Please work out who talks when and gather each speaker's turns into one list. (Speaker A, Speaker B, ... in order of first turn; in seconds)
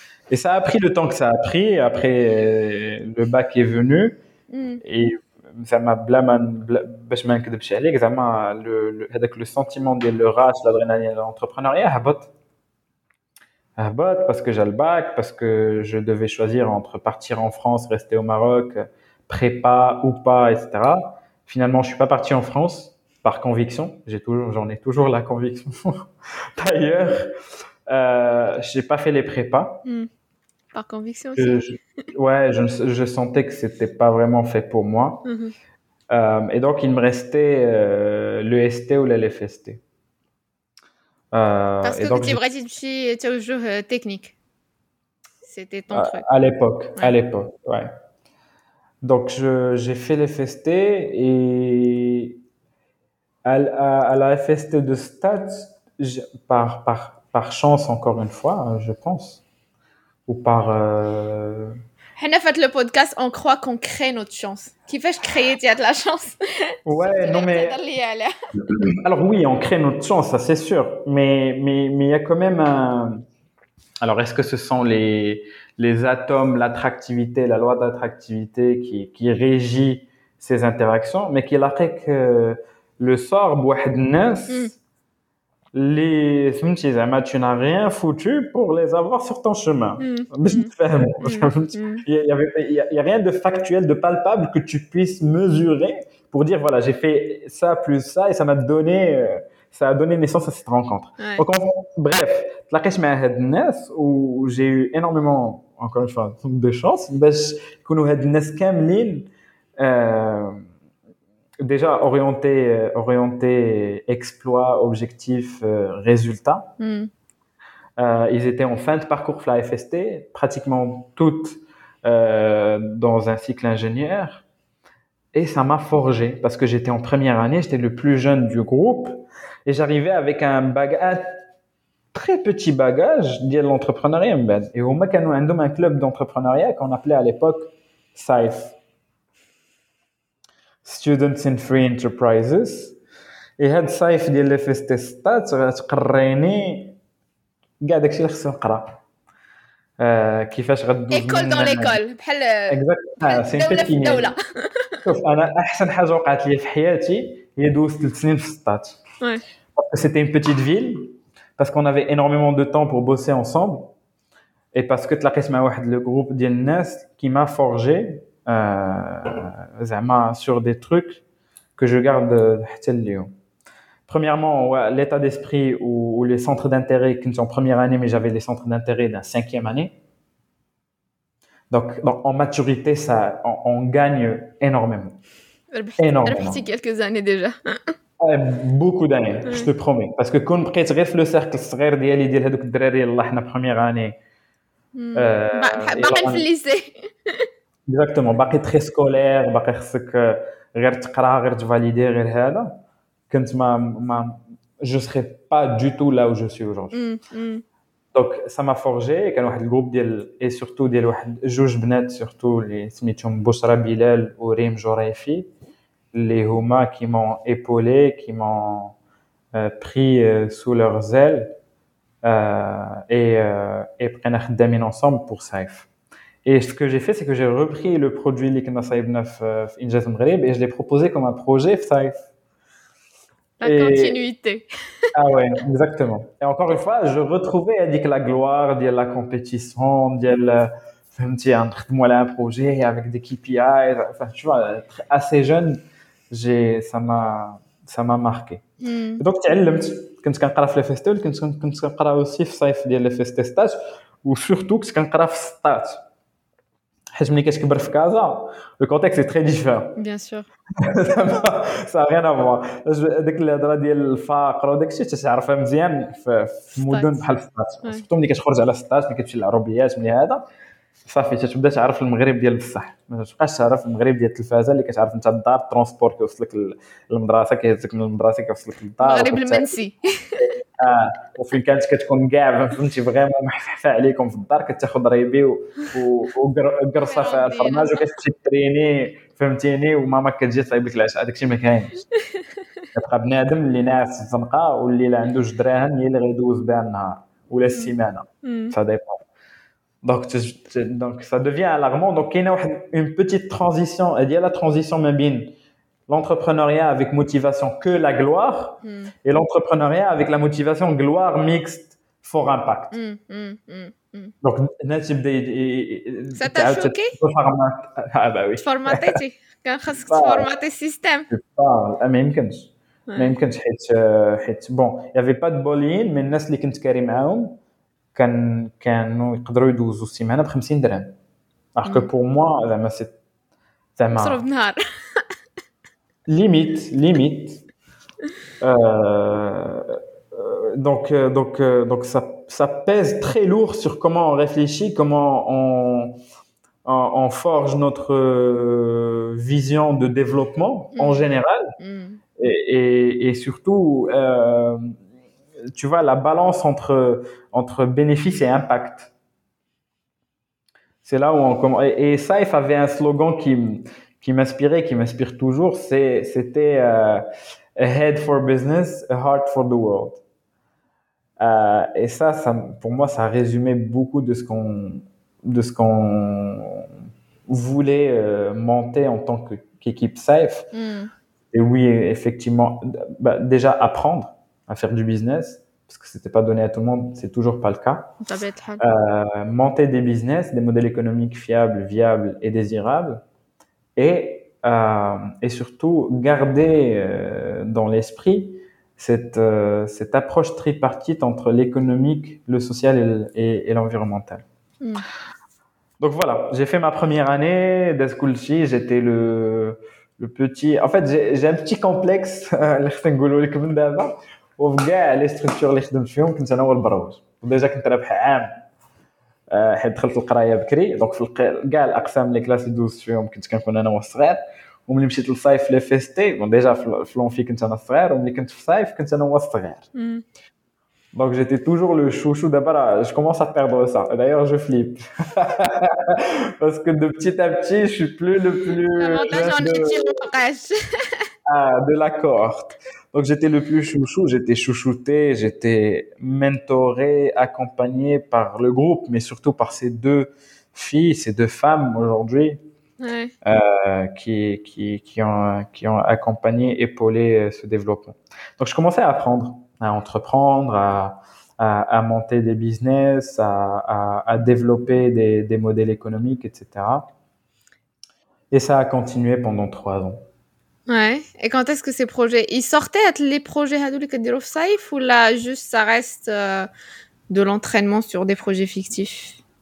Speaker A: 0.3-4.2, 4.8-12.3, 13.8-27.3, 27.9-29.8, 31.4-35.2, 36.1-39.8, 41.3-42.4, 45.9-47.9, 49.0-52.4, 53.5-59.4, 60.3-61.8, 66.9-67.8, 68.7-73.2, 74.0-84.8, 85.7-109.3, 109.8-110.6, 111.6-116.7, 118.0-124.5, 125.3-131.3, 132.1-138.8, 140.8-142.9, 143.6-147.0, 147.8-149.0, 150.0-152.0, 152.7-154.3, 155.1-159.0, 159.8-163.9, 164.7-171.2, 171.8-173.3, 174.1-179.9, 181.7-185.2, 186.0-186.7, 188.2-194.2, 195.2-196.4, 197.9-202.8, 203.3-207.0, 208.1-215.5, 216.1-219.0, 219.5-221.5, 222.2-225.9, 226.4-232.3, 233.6-234.2, 235.1-248.6, 249.2-256.0, 257.2-260.0, 260.8-270.4, 271.1-279.8, 280.4-292.1, 292.9-299.2, 300.0-305.5, 306.1-312.9, 314.4-319.2, 320.1-320.5, 321.3-327.6, 328.1-331.2, 331.8-333.2, 334.0-334.4, 336.3-337.6, 338.6-346.2, 346.9-351.8, 352.4-355.0, 355.7-359.1, 361.0-367.2, 367.8-370.2, 371.4-376.9, 377.5-380.7, 381.5-388.1, 388.8-393.2, 394.0-404.4, 406.0-418.5, 419.5-429.9, 431.1-440.2, 441.5-452.6, 453.4-467.1, 468.5-470.2
Speaker B: 4.5-4.8, 30.7-31.6, 35.2-35.5, 41.8-44.4, 45.4-46.2, 62.2-68.3, 90.0-90.7, 91.2-92.0, 101.2-101.4, 116.8-117.1, 151.1-155.0, 185.7-187.9, 194.9-197.5, 206.9-207.6, 233.6-234.7, 248.8-249.2, 260.0-260.5, 266.9-267.2, 279.0-280.4, 287.1-288.1, 298.4-298.8, 308.8-309.1, 312.9-314.3, 316.4-317.1, 318.6-321.3, 323.1-323.4, 331.9-332.1, 334.1-335.3, 350.9-352.2, 380.7-381.1, 388.2-388.8, 429.9-430.2, 438.7-441.2, 453.0-453.3, 470.9-476.7, 477.3-479.4